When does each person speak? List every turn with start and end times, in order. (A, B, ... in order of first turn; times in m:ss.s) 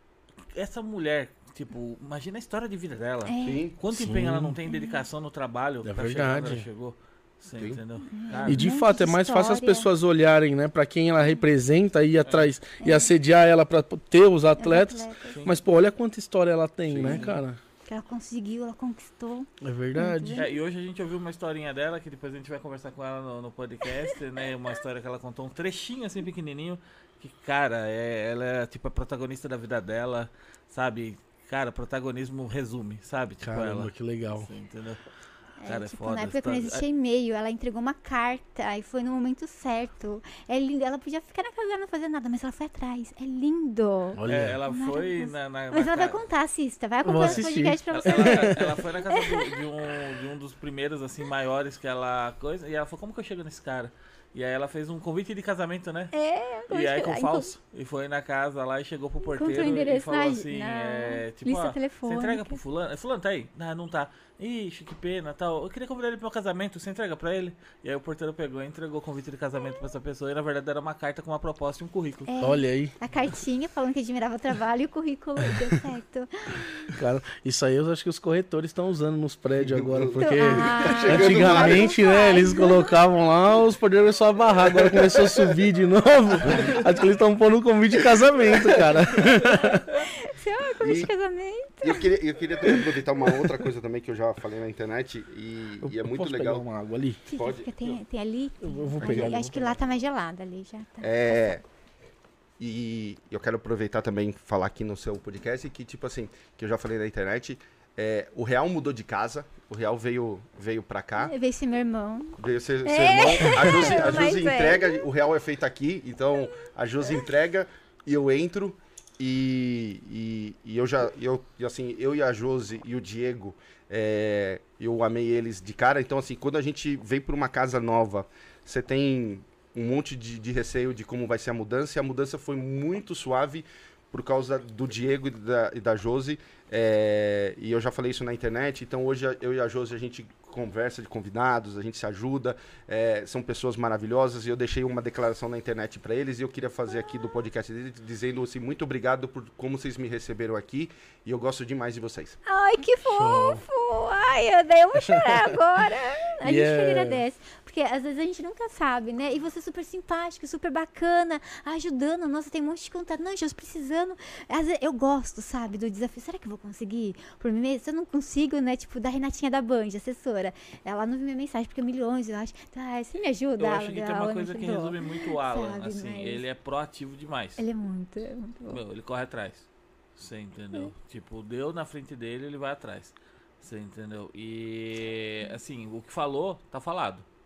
0:00.5-0:08.7 A
0:03.3-0:03.7 B
0:03.4-0:03.8 C
0:03.9-0:04.6 D
0:04.7-0:05.0 B
0:05.8-0:06.7 D
0:08.1-0:09.9 B
0:08.5-0:17.6 D
0:12.2-0:12.5 A
0:12.8-0:13.1 B
0:14.6-0:15.4 B
0:15.3-0:15.6 A
0:16.9-0:17.3 C
0:17.0-0:17.4 A
0:17.9-0:20.5 B
0:19.6-0:20.4 D
0:20.3-0:35.0 A
0:33.4-0:34.5 D
0:35.6-0:49.6 B
0:35.6-0:36.8 A
0:44.2-0:44.6 D
0:44.3-0:46.2 A
0:47.0-0:48.8 D
0:47.2-0:56.1 A
0:56.1-0:57.5 B
0:56.7-1:12.3 A
0:59.3-1:02.6 B
1:12.3-1:17.0 B
1:12.4-1:12.9 D
1:16.9-1:29.9 D
1:19.6-1:21.9 C
1:20.2-1:23.0 B
1:24.6-1:25.6 C
1:26.4-1:26.8 C
1:28.0-1:29.3 C
1:29.5-1:32.1 B
1:30.8-1:31.1 C
1:31.8-1:36.6 C
1:32.7-1:33.7 D
1:35.8-1:37.2 D
1:37.3-1:41.6 B
1:37.4-1:38.0 C
1:38.6-1:39.5 D
1:39.0-1:39.8 C
1:41.0-1:41.6 C
1:42.6-1:51.3 C
1:51.2-1:55.0 B
1:52.4-2:32.4 C
2:32.5-2:56.4 B
2:33.1-2:33.6 D
2:35.1-2:35.5 D
2:36.4-2:37.2 D
2:53.6-2:57.6 A
2:57.6-2:58.8 B
2:58.7-3:07.2 A